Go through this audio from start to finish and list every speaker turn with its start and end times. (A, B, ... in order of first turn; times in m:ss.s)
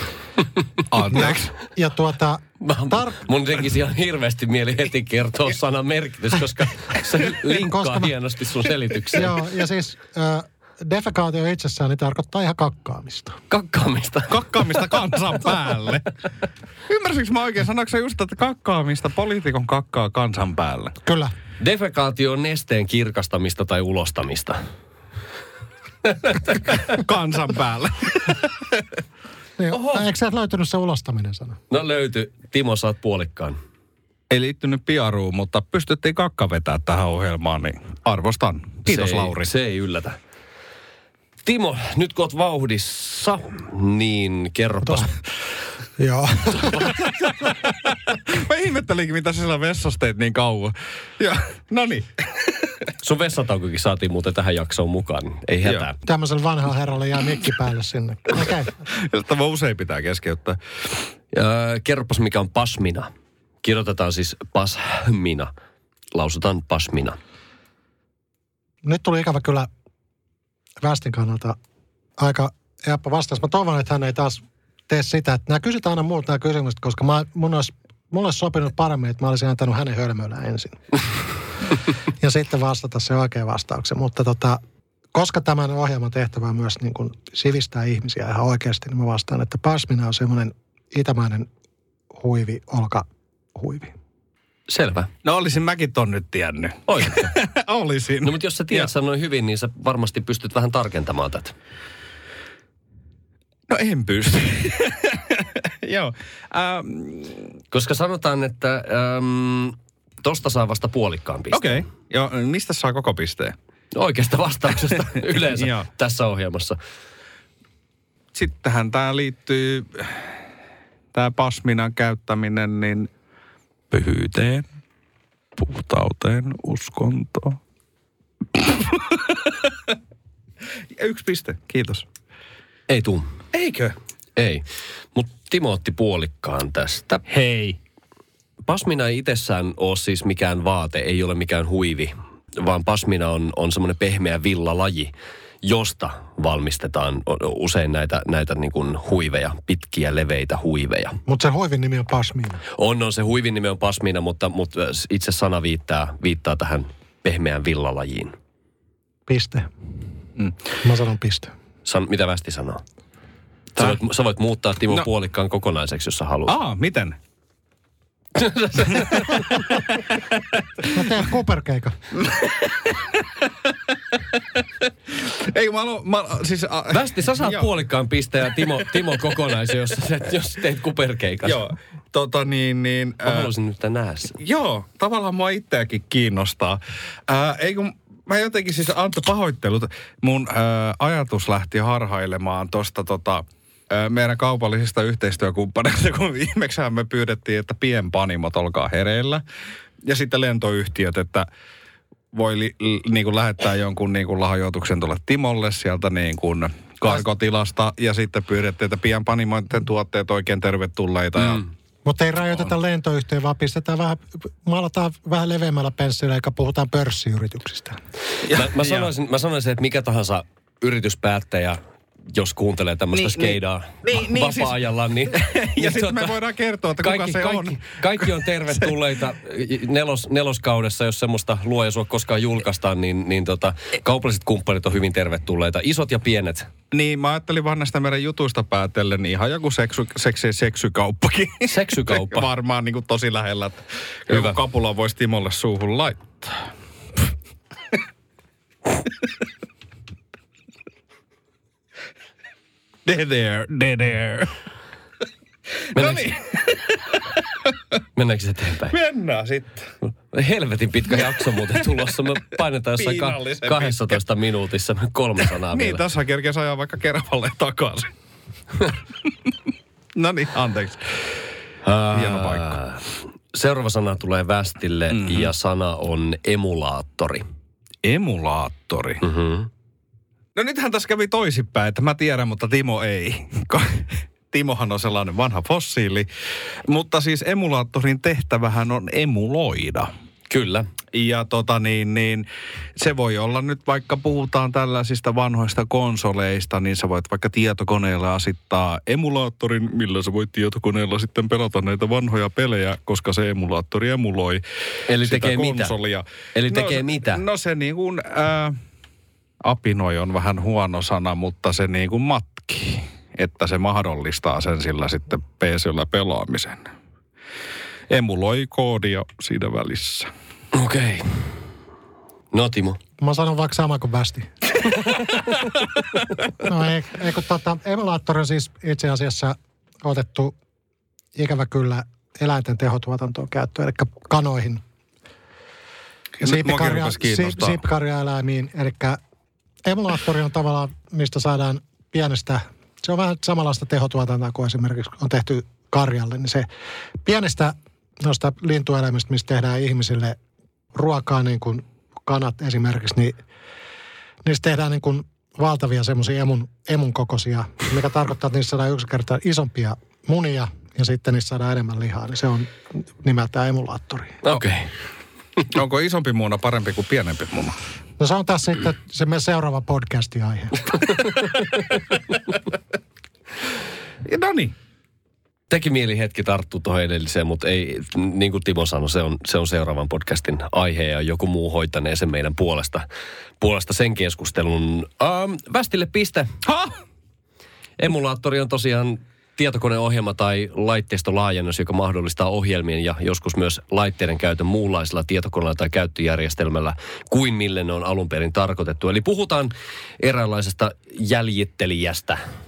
0:00.9-0:01.5 A
0:01.1-0:03.2 B
0:02.6-0:09.3 C
0:07.5-0:08.1 B
0:09.1-0:13.4 B
0:13.5-0:14.4 C
0:14.3-0:16.1 A
0:16.9-0:21.0 A
0:21.0-0:21.3 B
0:21.6-0:24.6 C
0:26.7-0:28.5 A
0:29.6-0:31.6 B
0:31.7-0:33.6 C
0:34.3-0:39.5 A
0:38.9-0:40.2 C
0:41.4-0:45.1 C
0:46.0-0:47.1 B
0:47.4-0:52.5 A
0:53.0-0:56.0 C
0:56.0-0:58.7 B
0:58.9-1:00.6 A
1:01.3-1:03.1 C
1:03.6-1:05.5 C
1:06.1-1:07.2 C
1:08.8-1:09.7 B
1:10.8-1:11.6 B
1:12.2-1:21.0 B
1:22.2-1:24.6 B
1:25.1-1:31.5 B
1:32.1-1:33.9 B
1:34.7-1:35.1 C
1:35.2-1:38.9 A
1:36.9-1:37.3 C
1:38.2-1:41.5 C
1:43.7-1:47.5 A
1:47.7-1:51.8 C
1:51.5-1:53.6 A
1:54.0-1:56.8 C
1:55.5-1:55.9 A
1:58.3-2:00.3 A
2:01.1-2:03.1 A
2:03.9-2:04.7 A
2:05.6-2:07.6 A
2:08.6-2:09.4 A
2:11.0-2:12.0 A
2:12.9-2:13.4 C
2:13.5-2:14.0 A
2:14.4-2:17.2 C
2:17.3-2:17.8 A
2:18.7-2:31.2 C
2:31.3-2:32.6 B
2:32.8-2:38.4 C
2:39.3-2:39.7 B
2:40.8-2:41.5 B
2:41.8-2:42.8 C
2:43.8-2:46.5 C
2:46.5-2:47.2 A
2:48.4-2:49.7 C
2:50.9-2:52.0 B
2:52.2-2:53.2 A
2:55.2-2:57.7 A
2:56.9-3:01.6 C
3:01.4-3:03.5 A
3:03.2-3:04.4 C
3:04.4-3:19.4 A
3:20.0-3:21.5 A
3:22.3-3:31.7 A
3:32.0-3:38.0 B
3:38.4-3:39.1 A
3:38.5-3:46.4 C
3:43.2-3:44.8 A
3:45.3-3:48.9 A
3:47.0-3:56.7 C
3:56.9-4:06.6 A
4:01.7-4:02.5 C
4:04.3-4:04.6 C
4:13.1-4:14.6 A
4:15.9-4:17.2 A
4:16.0-4:16.3 C
4:18.2-4:19.0 C
4:18.9-4:19.9 A
4:20.3-4:26.0 C
4:23.0-4:24.2 A
4:25.7-4:28.1 A
4:30.2-4:31.1 A
4:31.8-4:37.4 C
4:32.1-4:32.8 A
4:35.1-4:35.5 A
4:38.0-4:39.2 A
4:39.2-4:39.7 C
4:40.6-4:46.3 A
4:46.9-4:50.1 A
4:50.5-4:50.9 C
4:51.1-5:04.6 A
5:05.1-5:05.9 C
5:05.2-5:08.8 A
5:06.6-5:07.4 C
5:09.6-5:16.9 A
5:18.1-5:20.3 A
5:20.7-5:21.5 C
5:22.5-5:23.0 C
5:23.2-5:24.5 B
5:26.6-5:30.6 B
5:31.4-5:34.8 B
5:36.4-5:37.8 A
5:36.4-5:39.2 B
5:39.8-5:46.7 B
5:47.2-5:50.4 B
5:50.9-5:53.4 B
5:54.4-6:04.4 B
6:04.4-6:04.9 C
6:05.7-6:07.8 A
6:08.2-6:11.1 B
6:14.2-6:14.8 A
6:15.7-6:23.0 C
6:23.6-6:26.5 C
6:26.6-6:27.0 A
6:28.0-6:42.4 C